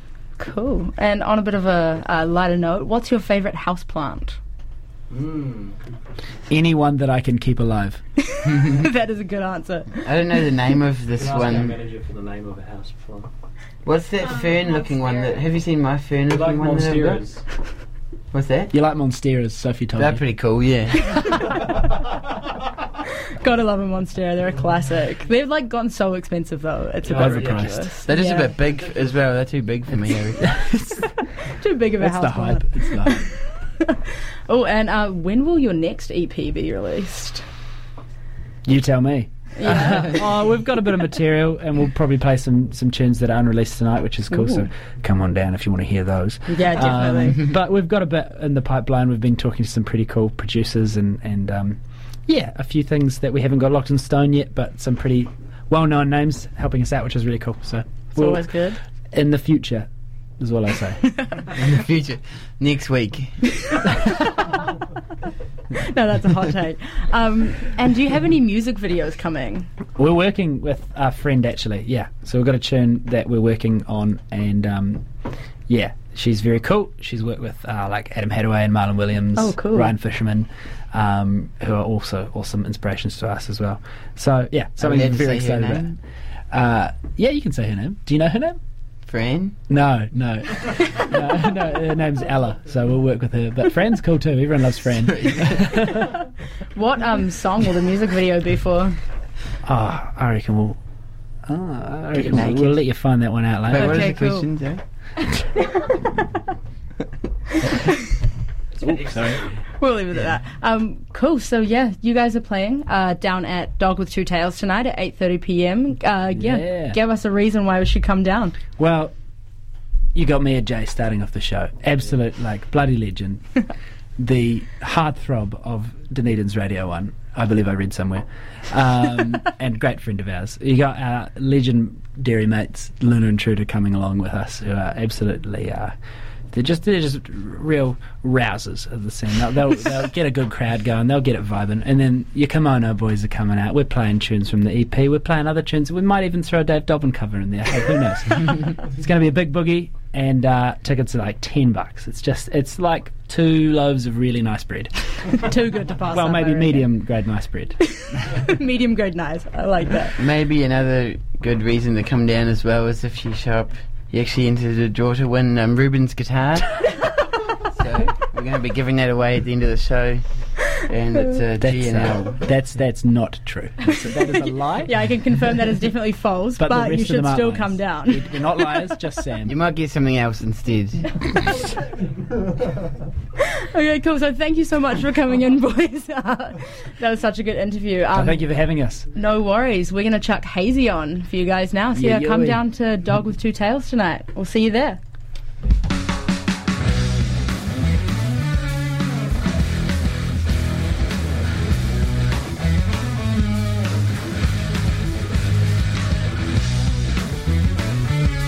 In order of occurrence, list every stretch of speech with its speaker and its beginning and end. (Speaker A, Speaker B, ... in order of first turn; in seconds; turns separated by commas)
Speaker A: 0.4-4.4, Speaker B: 5.1-5.8, Speaker C: 6.5-8.0, Speaker A: 8.2-10.1, Speaker D: 8.4-8.9, Speaker D: 10.0-11.8, Speaker B: 11.2-13.3, Speaker D: 13.8-17.2, Speaker B: 16.3-17.4, Speaker D: 18.3-18.7, Speaker C: 18.7-20.2, Speaker D: 20.0-21.1, Speaker A: 21.1-21.5, Speaker A: 23.4-28.5, Speaker B: 27.1-27.6, Speaker C: 27.1-27.9, Speaker D: 28.1-30.5, Speaker C: 30.6-31.1, Speaker A: 31.4-37.4, Speaker C: 32.0-33.2, Speaker C: 38.7-58.5, Speaker A: 39.6-40.1, Speaker A: 44.3-44.7, Speaker A: 46.5-47.4, Speaker A: 58.1-58.8, Speaker C: 59.1-59.9, Speaker C: 60.4-61.0, Speaker D: 61.5-63.4, Speaker A: 65.7-69.7, Speaker C: 70.0-75.0, Speaker C: 75.7-86.0, Speaker A: 79.4-79.9, Speaker D: 84.8-86.0, Speaker C: 86.5-88.6, Speaker D: 89.1-89.6, Speaker C: 89.7-96.2, Speaker A: 96.7-99.0, Speaker C: 99.7-100.8, Speaker C: 101.5-104.0, Speaker D: 102.2-102.8, Speaker D: 103.7-104.8, Speaker A: 103.7-104.5, Speaker A: 107.6-108.0, Speaker C: 108.8-109.4, Speaker B: 109.1-109.4, Speaker A: 109.8-118.6, Speaker C: 116.4-117.0, Speaker C: 118.8-119.1, Speaker C: 120.2-123.4, Speaker C: 124.2-135.9, Speaker C: 136.5-154.9, Speaker A: 155.4-156.9, Speaker C: 156.1-157.8, Speaker A: 158.0-160.2, Speaker D: 160.2-166.9, Speaker D: 167.7-172.4, Speaker C: 171.6-174.9, Speaker A: 174.8-178.9, Speaker C: 176.6-179.5, Speaker D: 179.5-181.1, Speaker A: 181.4-181.8, Speaker A: 183.6-188.4, Speaker C: 188.1-189.1, Speaker A: 189.1-195.0, Speaker C: 191.9-192.6